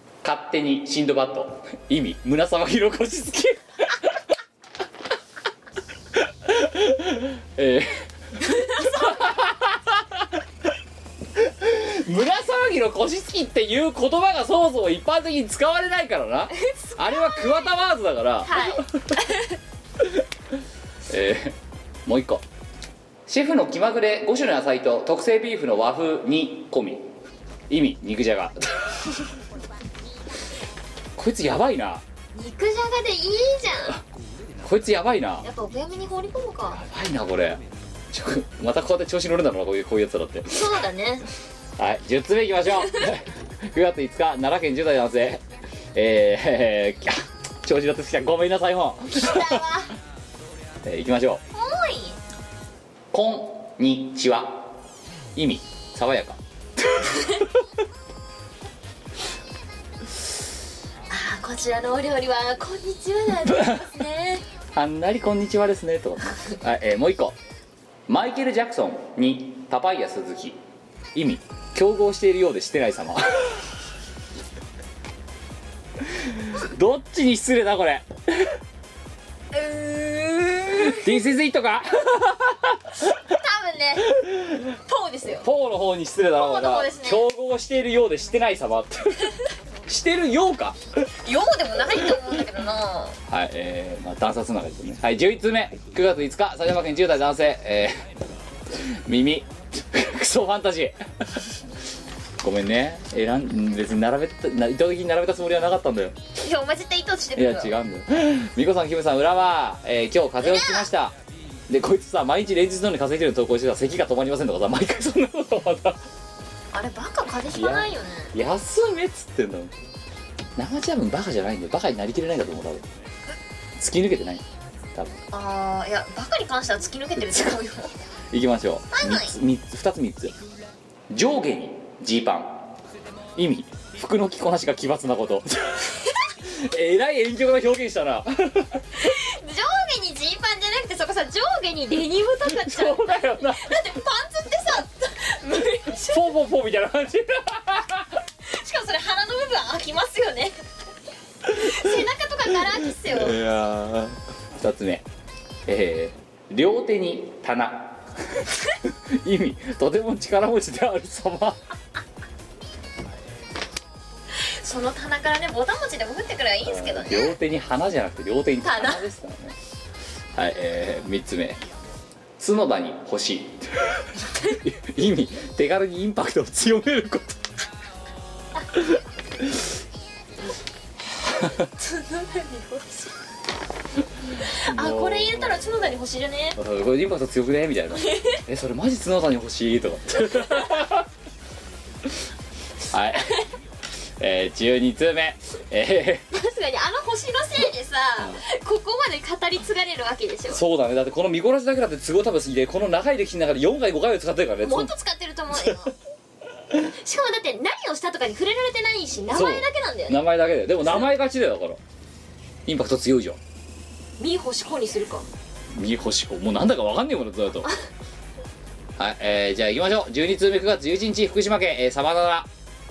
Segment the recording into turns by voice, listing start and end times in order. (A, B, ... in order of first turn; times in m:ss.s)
0:00.2-0:04.2 A
0:06.2-0:10.3 A
0:08.5-0:09.3 B
0:11.4-0:18.8 A
0:16.6-0:17.8 B
0:18.4-0:19.4 B
0:21.1-0:22.4 A
0:23.3-0:27.1 A
0:27.7-0:28.9 A
0:31.2-0:32.0 A
0:32.3-0:34.0 B
0:34.6-0:35.5 A
0:35.4-0:36.8 B
0:36.7-0:40.7 A
0:40.5-0:41.3 B
0:41.8-0:45.4 A
0:46.0-0:49.6 A
0:49.2-0:49.9 B
0:50.8-0:51.4 A
0:51.5-0:52.2 B
0:53.1-0:54.7 A
0:55.4-0:56.4 A
0:57.0-0:57.4 B
1:01.1-1:04.4 B
1:04.7-1:07.4 A
1:08.1-1:10.6 A
1:11.2-1:13.5 A
1:16.1-1:18.5 A
1:19.5-1:21.2 B
1:20.7-1:22.8 A
1:23.1-1:24.1 B
1:24.1-1:24.7 A
1:24.9-1:25.5 B
1:25.4-1:29.3 A
1:26.4-1:27.3 B
1:29.9-1:30.8 A
1:31.2-1:33.2 B
1:33.3-1:38.1 A
1:38.8-1:41.4 A
1:42.4-1:46.2 A
1:46.4-1:47.7 B
1:47.4-1:51.2 A
1:50.4-1:50.9 B
1:51.7-1:56.0 A
1:56.7-1:58.3 B
1:57.5-1:59.7 A
2:00.6-2:02.9 A
2:03.8-2:04.4 A
2:05.0-2:05.2 A
2:05.3-2:07.9 B
2:08.3-2:10.4 A
2:08.9-2:09.3 B
2:11.1-2:12.7 A
2:13.4-2:15.9 A
2:16.4-2:18.8 A
2:18.9-2:26.3 B
2:22.5-2:24.0 A
2:26.1-2:28.1 A
2:28.4-2:30.6 B
2:31.5-2:33.4 B
2:33.1-2:35.0 A
2:35.7-2:41.6 A
2:44.3-2:47.4 B
2:46.7-2:49.6 A
2:48.6-2:49.0 B
2:50.4-2:51.6 A
2:52.4-2:57.4 A
3:01.8-3:03.1 B
3:04.4-3:06.6 B
3:04.6-3:05.6 A
3:06.6-3:11.0 A
3:08.0-3:08.4 B
3:12.9-3:13.4 A
3:14.2-3:16.3 A
3:16.3-3:20.6 B
3:20.5-3:24.9 A
3:24.6-3:25.9 B
3:27.0-3:30.2 B
3:29.3-3:31.8 A
3:32.7-3:33.4 A
3:34.2-3:35.3 B
3:35.7-3:37.7 A
3:39.0-3:42.5 A